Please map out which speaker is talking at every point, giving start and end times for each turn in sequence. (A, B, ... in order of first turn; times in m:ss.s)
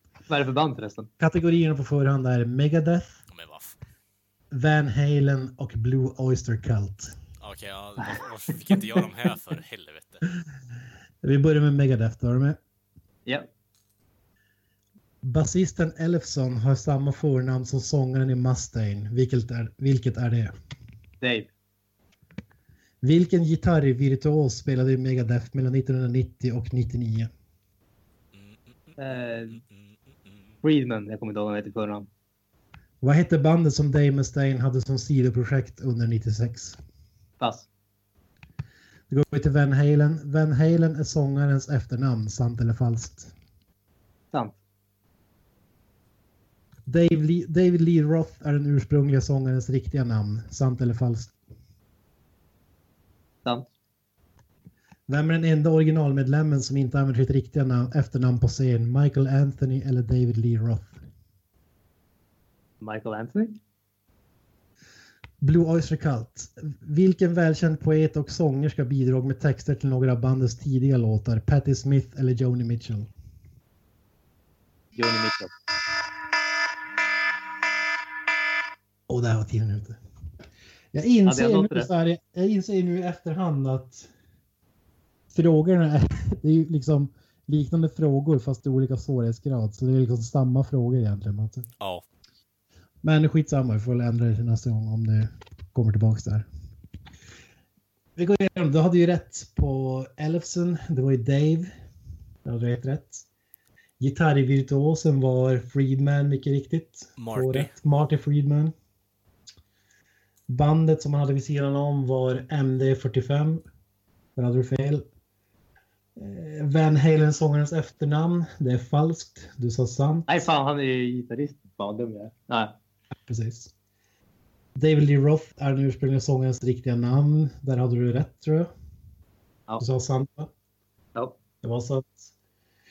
0:00.3-0:01.1 A
0:01.2-0:03.1 B
0:03.3-0:03.7 C
0:04.5-0:07.1 B
0:07.4-0:10.2 C
0:08.0-0:09.0 A
0:11.2-0:12.6 B
0:15.2-0:20.5 B
0:21.2-0:21.5 A
0:23.0-0:27.3 B
0:28.3-0:29.0 C
0:29.0-0:29.6 A
0:29.6-0:30.5 C
0:30.6-0:32.1 A
0:33.0-0:36.8 B
0:37.4-0:37.7 A
0:39.1-0:43.3 B
0:46.9-0:51.3 B
0:55.1-1:01.0 B
1:02.8-1:03.6 A
1:05.4-1:13.1 B
1:14.9-1:15.5 A
1:19.1-1:20.0 B
1:20.9-1:24.1 B
1:21.2-1:21.9 A
1:25.3-1:31.7 B
1:33.0-1:36.4 B
1:38.2-1:41.7 B
1:42.4-1:43.2 B
1:44.0-1:48.7 B
1:47.2-1:47.7 C
1:50.5-1:53.6 B
1:54.4-1:55.0 B
1:56.2-2:00.4 B
2:00.3-2:02.8 A
2:03.2-2:03.7 B
2:04.8-2:08.7 B
2:09.8-2:10.5 B
2:11.6-2:12.3 B